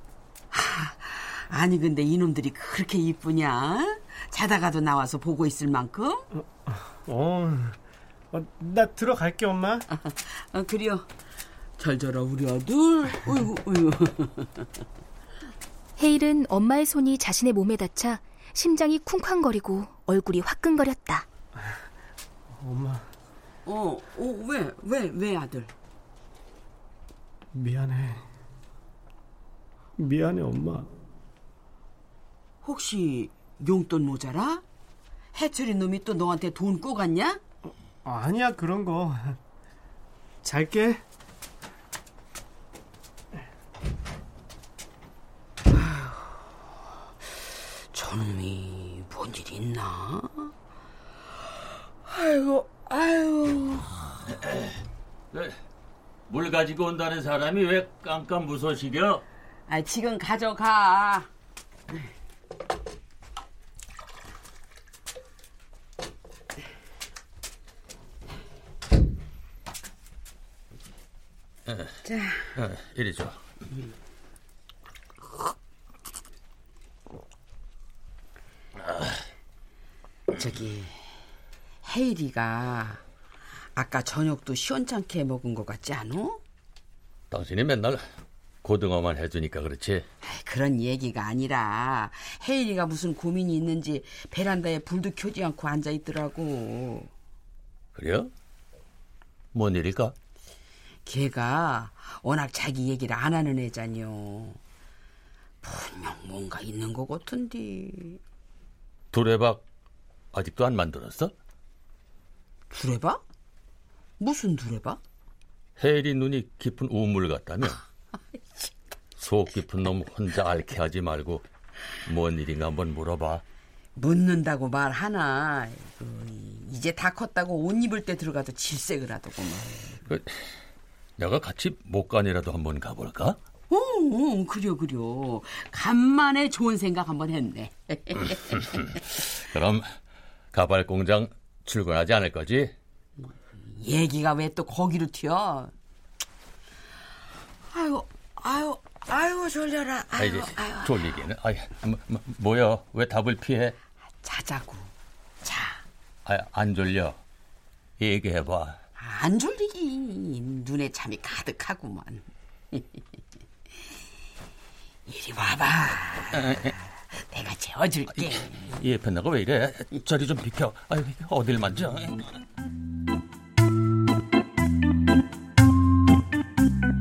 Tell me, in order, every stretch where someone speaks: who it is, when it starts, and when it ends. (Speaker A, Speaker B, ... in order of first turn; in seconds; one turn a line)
Speaker A: 0.5-6.3
Speaker B: 6.4-7.8
Speaker B: 8.3-9.9
Speaker A: 9.9-11.1
Speaker A: 11.8-14.7
Speaker C: 16.0-21.3
Speaker B: 22.6-23.1
Speaker A: 23.6-25.7
Speaker B: 27.5-28.2
Speaker B: 30.0-30.9
Speaker A: 32.6-34.6
Speaker A: 35.3-37.4
Speaker B: 38.0-39.4
Speaker B: 40.4-41.0
Speaker A: 45.7-46.4
Speaker A: 47.9-50.5
Speaker A: 52.1-54.0
Speaker D: 55.3-55.6
Speaker D: 56.3-59.2
Speaker A: 59.7-61.3
Speaker A: 72.0-72.5
Speaker D: 72.6-73.4
Speaker A: 80.3-81.1
Speaker A: 81.8-83.0
Speaker A: 83.8-86.4
Speaker D: 87.3-88.0
Speaker D: 88.6-90.1
Speaker A: 90.2-97.1
Speaker D: 98.0-98.3
Speaker D: 99.5-100.2
Speaker A: 101.1-104.6
Speaker A: 105.6-108.2
Speaker D: 109.1-109.6
Speaker D: 110.3-111.3
Speaker A: 112.7-113.2
Speaker A: 114.2-115.0
Speaker D: 115.8-117.8
Speaker D: 119.2-121.5
Speaker D: 122.1-123.4
Speaker A: 124.0-130.0
Speaker D: 131.2-133.4
Speaker A: 133.7-138.8
Speaker D: 139.5-139.9
Speaker D: 140.5-142.7
Speaker A: 143.2-145.7
Speaker A: 147.7-151.2
Speaker D: 150.2-153.8
Speaker A: 154.2-154.9
Speaker A: 155.4-155.8
Speaker D: 156.3-157.2
Speaker D: 158.0-158.8
Speaker A: 159.0-163.1
Speaker A: 165.1-168.7
Speaker D: 168.2-172.2